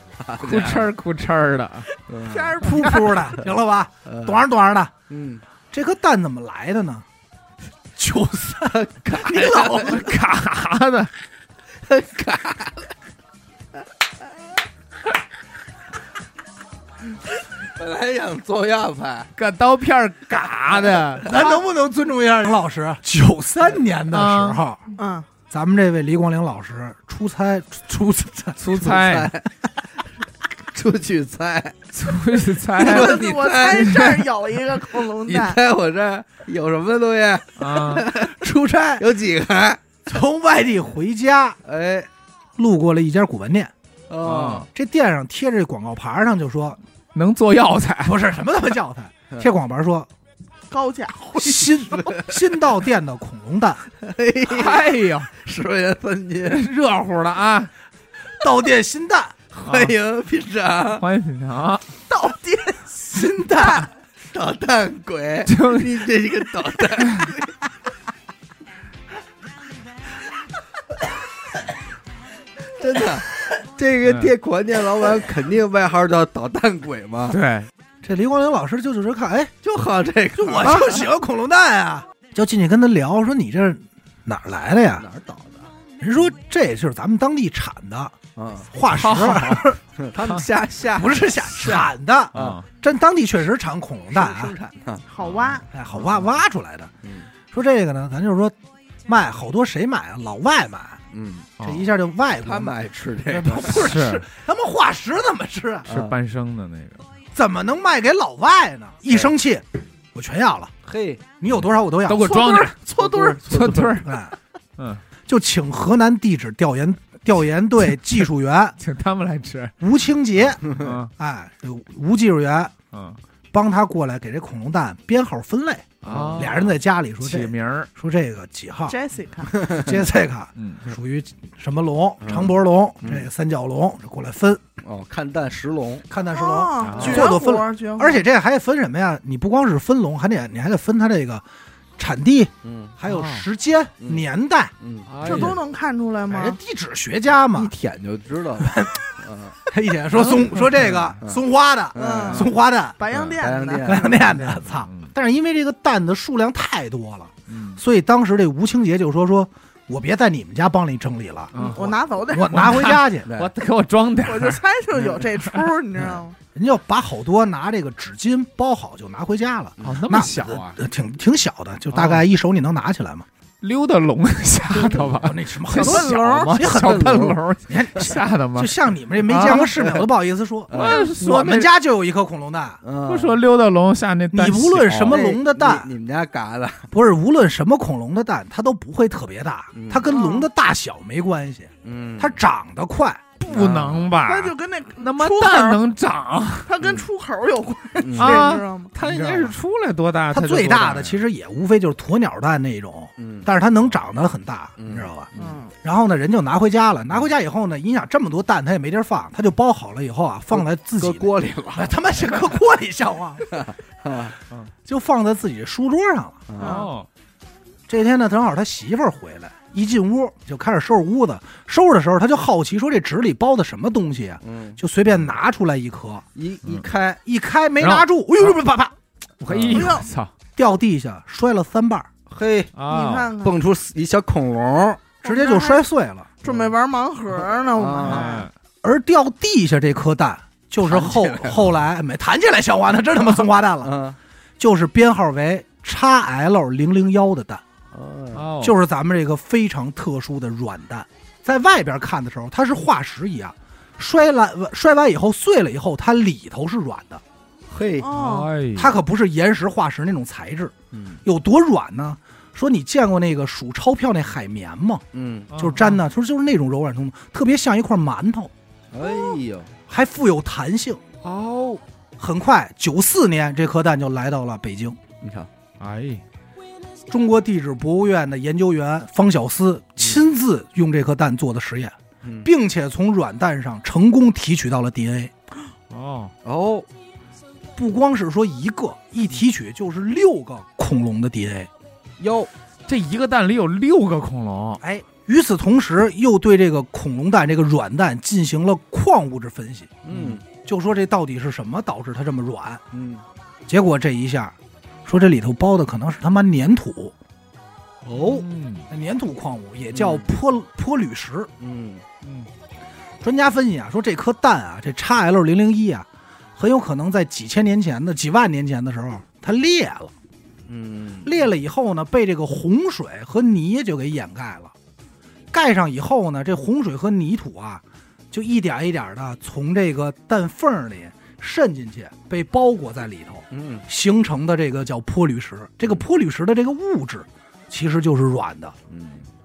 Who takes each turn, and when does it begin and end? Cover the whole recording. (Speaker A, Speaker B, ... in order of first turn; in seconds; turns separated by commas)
Speaker A: 0.2-0.9, Speaker B: 0.4-1.9, Speaker A: 2.1-2.7, Speaker C: 2.2-3.3, Speaker D: 2.6-4.9, Speaker A: 4.0-4.5, Speaker A: 5.1-5.4, Speaker D: 5.7-7.0, Speaker D: 8.0-10.1, Speaker A: 8.7-10.1, Speaker B: 9.8-11.1, Speaker A: 11.8-12.9, Speaker A: 17.8-19.3, Speaker B: 19.4-21.4, Speaker D: 21.2-24.8, Speaker B: 24.1-24.6, Speaker C: 25.0-25.3, Speaker D: 25.5-28.7, Speaker B: 28.6-29.3, Speaker A: 28.7-29.5, Speaker A: 30.7-31.9, Speaker B: 31.9-34.2, Speaker A: 32.7-34.2, Speaker C: 32.8-35.6, Speaker A: 35.0-38.4, Speaker B: 37.6-38.1, Speaker D: 38.2-39.0, Speaker A: 39.0-39.9, Speaker D: 40.0-41.6, Speaker A: 41.6-42.1, Speaker D: 42.6-43.7, Speaker A: 44.1-44.7, Speaker B: 44.2-44.7, Speaker D: 44.7-46.8, Speaker B: 47.1-48.2, Speaker D: 48.0-50.1, Speaker C: 50.7-51.6, Speaker D: 51.4-53.9, Speaker A: 51.7-52.4, Speaker A: 54.0-56.7, Speaker B: 54.5-55.3, Speaker B: 56.5-57.7, Speaker D: 58.4-59.4, Speaker A: 59.5-61.0, Speaker B: 59.7-59.9, Speaker B: 61.0-61.8, Speaker C: 62.1-63.9, Speaker D: 63.1-63.9, Speaker A: 64.2-67.5, Speaker B: 65.5-66.1, Speaker B: 67.0-67.3, Speaker A: 72.8-77.4, Speaker B: 77.3-77.7, Speaker D: 78.0-79.5, Speaker A: 79.6-81.0, Speaker D: 80.4-85.1, Speaker A: 85.0-85.7, Speaker D: 86.0-88.2, Speaker A: 88.4-88.7, Speaker D: 88.7-89.8, Speaker B: 88.9-89.7, Speaker A: 90.0-92.6, Speaker D: 90.9-94.5, Speaker B: 92.3-92.6, Speaker A: 94.1-95.0, Speaker C: 95.1-95.7, Speaker B: 95.2-95.6, Speaker D: 95.7-96.9, Speaker A: 97.0-97.3, Speaker D: 97.5-98.5, Speaker D: 99.1-101.0, Speaker A: 101.1-101.5, Speaker B: 101.6-101.9, Speaker D: 101.6-105.9, Speaker A: 102.4-104.0, Speaker B: 103.7-104.2, Speaker A: 105.9-106.2, Speaker B: 105.9-107.0, Speaker D: 107.3-110.7, Speaker A: 110.8-111.3, Speaker D: 111.4-112.4, Speaker B: 112.1-112.8, Speaker C: 112.2-113.4, Speaker A: 112.9-114.0, Speaker B: 113.4-114.2, Speaker D: 114.0-114.3, Speaker D: 115.3-118.8, Speaker B: 118.8-119.8, Speaker D: 119.8-122.7, Speaker B: 120.7-121.1, Speaker B: 122.9-123.2, Speaker D: 123.5-129.0, Speaker B: 126.0-127.9, Speaker A: 126.1-126.5, Speaker C: 128.9-129.6, Speaker D: 129.5-134.6, Speaker A: 129.5-130.0, Speaker B: 130.6-130.8, Speaker A: 132.2-133.3, Speaker A: 134.8-136.1, Speaker D: 136.1-141.4, Speaker C: 136.3-138.2, Speaker B: 136.8-137.3, Speaker D: 142.0-144.7, Speaker A: 142.6-142.9, Speaker B: 143.1-143.4, Speaker A: 144.8-145.5, Speaker B: 145.1-145.6, Speaker C: 145.2-146.6, Speaker D: 146.3-147.7, Speaker A: 147.5-149.6, Speaker D: 148.6-149.0, Speaker D: 149.7-153.0, Speaker A: 151.9-152.5, Speaker C: 152.0-154.2, Speaker B: 153.1-153.4, Speaker A: 153.3-154.2, Speaker D: 153.8-163.3, Speaker B: 154.3-155.1, Speaker B: 157.5-157.8, Speaker B: 161.5-161.9, Speaker C: 161.6-162.8, Speaker B: 162.5-164.6, Speaker A: 163.2-163.5, Speaker C: 164.2-166.4, Speaker D: 166.6-173.3, Speaker A: 169.8-170.1, Speaker B: 169.8-170.8, Speaker B: 171.9-172.2, Speaker B: 173.6-178.7, Speaker D: 174.8-182.8, Speaker A: 174.8-175.1, Speaker C: 175.7-176.6, Speaker A: 176.7-177.4, Speaker B: 179.3-179.7, Speaker A: 179.4-180.1, Speaker A: 180.7-181.1, Speaker B: 180.7-181.7, Speaker A: 182.8-183.4, Speaker B: 183.1-185.2, Speaker D: 184.3-185.9, Speaker A: 184.9-186.9, Speaker D: 186.9-193.6, Speaker A: 189.7-190.1, Speaker C: 190.1-190.5, Speaker A: 191.8-192.4, Speaker B: 193.4-196.7, Speaker A: 193.5-194.1, Speaker C: 194.2-195.8, Speaker C: 196.7-198.9, Speaker A: 198.0-198.6, Speaker B: 198.2-201.2, Speaker A: 199.1-199.4, Speaker D: 200.3-205.3, Speaker A: 203.2-203.5, Speaker A: 204.8-205.6, Speaker C: 205.3-205.7, Speaker D: 205.8-213.6, Speaker A: 210.5-212.0, Speaker A: 213.5-214.4, Speaker D: 214.8-216.4, Speaker A: 216.5-216.9, Speaker C: 216.6-216.9, Speaker B: 216.6-217.1, Speaker D: 217.9-226.3, Speaker A: 224.4-224.8, Speaker A: 226.4-227.2, Speaker D: 227.2-228.9, Speaker B: 227.8-228.1, Speaker B: 229.4-230.3, Speaker A: 229.5-230.0, Speaker C: 229.7-230.1, Speaker D: 230.6-232.1, Speaker A: 232.3-232.8, Speaker B: 232.8-233.3, Speaker C: 232.9-233.6, Speaker A: 233.4-235.1, Speaker C: 235.2-235.8, Speaker D: 235.2-236.3, Speaker C: 236.4-238.5, Speaker A: 236.4-236.7, Speaker A: 237.7-238.4, Speaker B: 238.0-238.5, Speaker D: 238.8-243.9, Speaker A: 240.8-241.7, Speaker A: 243.8-244.2, Speaker D: 244.6-247.6, Speaker A: 247.9-248.5, Speaker B: 248.3-248.8, Speaker D: 248.6-257.2, Speaker A: 257.7-258.1, Speaker C: 258.0-258.5, Speaker B: 258.1-258.9, Speaker D: 258.8-268.5, Speaker A: 260.9-261.2, Speaker A: 265.1-265.5, Speaker B: 265.5-266.0, Speaker A: 268.9-269.7, Speaker D: 269.9-271.0, Speaker B: 271.2-271.8, Speaker D: 272.2-275.0, Speaker A: 275.2-275.5, Speaker B: 275.8-276.2, Speaker D: 277.1-285.3, Speaker A: 282.2-282.5, Speaker B: 285.9-286.3, Speaker A: 286.4-286.9, Speaker D: 287.8-291.7, Speaker A: 292.2-292.5, Speaker B: 292.9-294.8, Speaker D: 294.8-302.8, Speaker A: 300.1-300.4, Speaker B: 300.1-300.4, Speaker A: 302.9-303.2, Speaker D: 303.7-304.6, Speaker D: 305.1-307.1, Speaker D: 308.1-311.5, Speaker B: 308.1-308.9, Speaker A: 309.9-310.3, Speaker A: 311.6-312.0, Speaker B: 312.2-312.5, Speaker D: 313.2-320.1, Speaker A: 320.7-321.4, Speaker D: 321.2-324.7, Speaker D: 325.5-338.8, Speaker A: 333.5-333.9, Speaker A: 338.9-339.3